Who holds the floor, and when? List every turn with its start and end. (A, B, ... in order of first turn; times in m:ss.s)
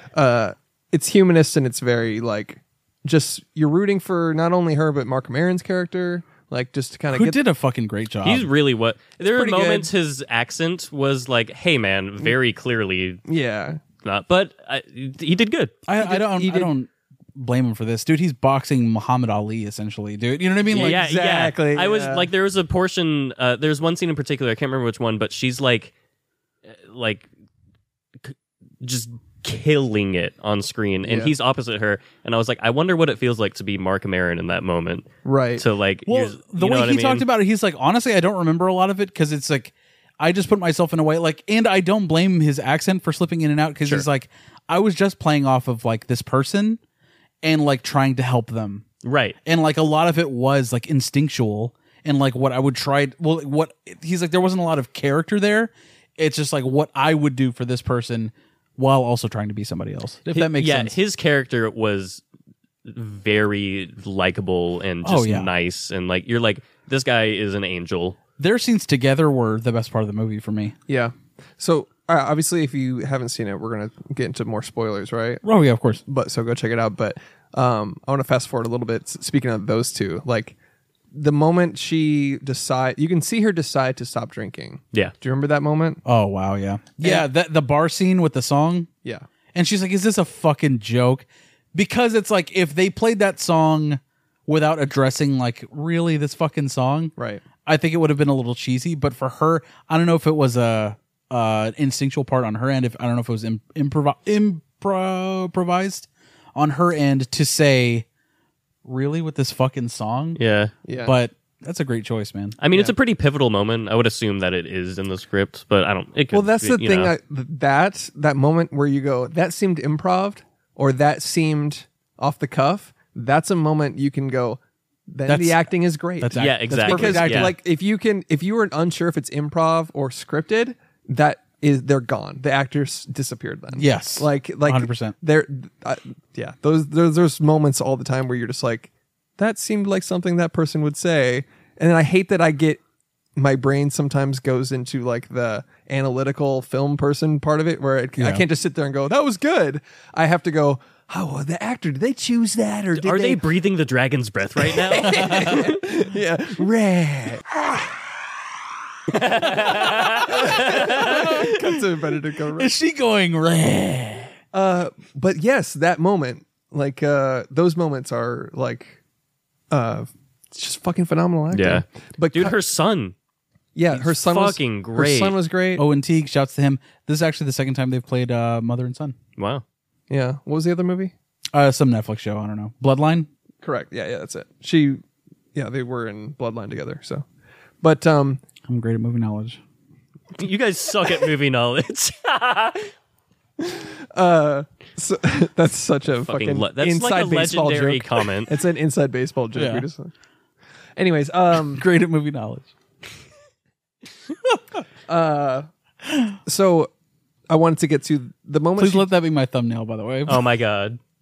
0:00.1-0:07.4 A
0:07.1-0:08.5 B
0:08.2-0:13.2 C
0:09.2-0:09.9 A
0:13.3-0:13.8 A
0:14.0-0:15.8 C
0:15.9-0:21.0 B
0:16.0-0:16.7 A
0:20.7-0:22.3 A
0:20.7-0:25.9 C
0:26.6-0:27.3 C
0:28.2-0:37.2 C
0:31.0-0:31.3 A
0:35.2-0:35.6 A
0:36.1-0:46.8 B
0:47.4-0:48.8 B
0:49.0-0:49.4 C
0:49.4-1:01.0 B
1:00.3-1:02.2 C
1:02.8-1:08.2 C
1:05.0-1:05.5 B
1:08.4-1:10.7 B
1:10.9-1:15.4 A
1:15.4-1:16.0 B
1:16.0-1:20.5 A
1:21.1-1:26.0 A
1:26.0-1:28.9 B
1:27.0-1:27.2 A
1:29.5-1:37.1 B
1:37.2-1:37.4 A
1:37.6-1:48.0 B
1:48.8-1:50.4 B
1:50.4-1:50.7 C
1:50.8-1:51.1 A
1:51.0-1:52.6 B
1:52.6-1:57.1 C
1:56.3-2:22.8 A
2:05.3-2:07.6 B
2:06.3-2:07.5 C
2:13.7-2:15.1 B
2:23.4-2:33.4 A
2:28.2-2:28.4 B
2:32.9-2:35.8 C
2:34.6-2:37.4 A
2:35.1-2:35.5 B
2:39.1-2:41.0 C
2:40.2-2:41.8 B
2:40.2-2:42.7 A
2:42.6-2:44.3 B
2:44.5-2:49.0 A
2:49.7-2:52.6 A
2:51.5-2:53.1 C
2:53.7-2:55.8 A
2:54.0-2:55.4 C
2:55.8-2:59.2 B
2:59.4-2:59.6 C
3:00.1-3:01.1 A
3:01.5-3:03.3 B
3:03.6-3:05.0 A
3:05.5-3:07.2 A
3:07.8-3:08.4 A
3:08.7-3:09.6 B
3:10.4-3:12.9 C
3:13.6-3:20.1 A
3:16.2-3:18.5 C
3:19.5-3:19.8 B
3:21.0-3:21.8 A
3:21.8-3:22.7 B
3:25.1-3:25.7 A
3:26.4-3:26.9 A
3:27.5-3:29.1 A
3:28.8-3:30.4 B
3:30.3-3:31.0 C